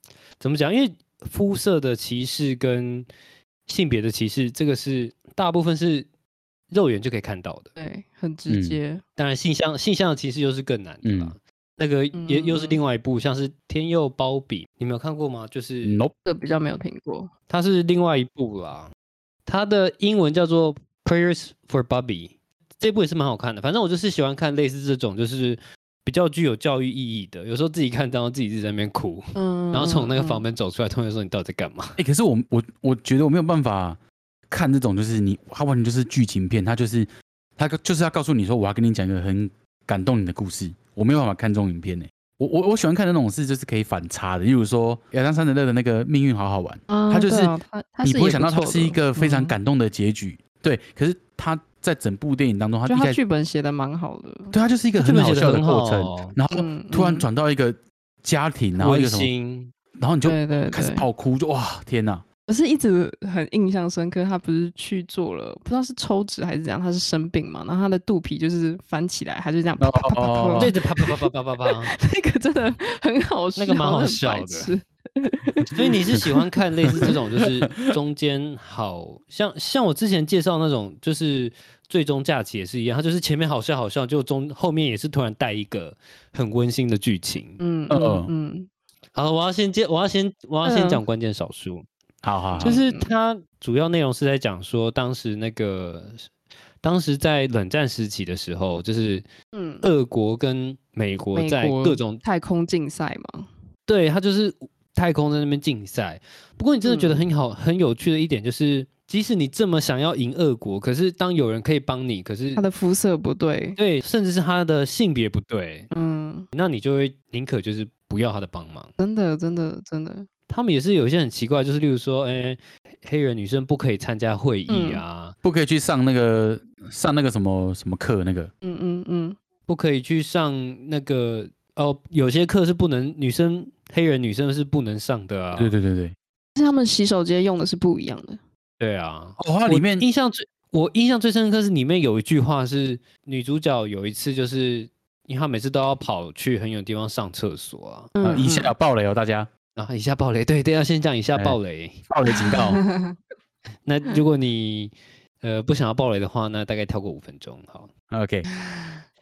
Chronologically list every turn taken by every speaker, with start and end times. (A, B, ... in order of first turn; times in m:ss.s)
0:00.4-0:03.1 A
0:03.7-0:06.1 A
0:06.7-0:07.7 A
0:07.8-0:09.0 B
0:08.5-0:08.8 C
0:09.2-0:16.0 A
0:11.0-0:11.3 C
0:12.1-0:12.8 B
0:15.8-0:16.1 C
0:16.2-0:17.3 B
0:17.5-0:18.9 A
0:19.4-0:32.0 A
0:29.4-0:30.4 B
0:32.0-0:34.0 C
0:34.5-0:53.2 C
0:46.9-0:49.6 B
0:52.9-0:54.6 B
0:54.5-0:59.3 C
0:55.0-0:56.4 A
0:56.5-0:57.3 B
0:58.8-0:59.7 A
1:00.0-1:02.2 C
1:00.2-1:01.0 B
1:02.5-1:11.2 B
1:09.8-1:10.7 C
1:10.6-1:11.9 A
1:11.8-1:16.4 B
1:13.6-1:14.7 A
1:15.7-1:27.6 A
1:16.8-1:17.9 C
1:27.6-1:28.7 B
1:27.9-1:28.3 C
1:29.1-1:31.9 A
1:30.6-1:31.0 B
1:32.2-1:32.8 C
1:32.6-1:33.1 B
1:32.6-1:36.3 A
1:36.8-1:39.2 A
1:39.5-1:39.9 B
1:39.8-1:42.2 A
1:41.4-1:43.5 B
1:43.9-1:52.6 A
1:46.8-1:47.3 B
1:52.6-1:53.8 B
1:53.8-1:55.9 A
1:55.9-1:56.5 B
1:56.5-1:58.9 A
1:59.0-2:00.3 B
2:00.5-2:05.4 A
2:04.7-2:05.0 B
2:05.4-2:08.5 C
2:08.6-2:09.4 B
2:09.7-2:15.7 A
2:15.6-2:16.2 C
2:16.6-2:18.4 B
2:18.8-2:28.4 A
2:19.4-2:20.1 C
2:28.2-2:28.7 B
2:28.2-2:29.5 C
2:29.8-2:32.0 A
2:32.1-2:32.8 C
2:32.4-2:33.2 B
2:33.8-2:37.9 A
2:38.1-2:38.5 C
2:38.6-2:38.9 B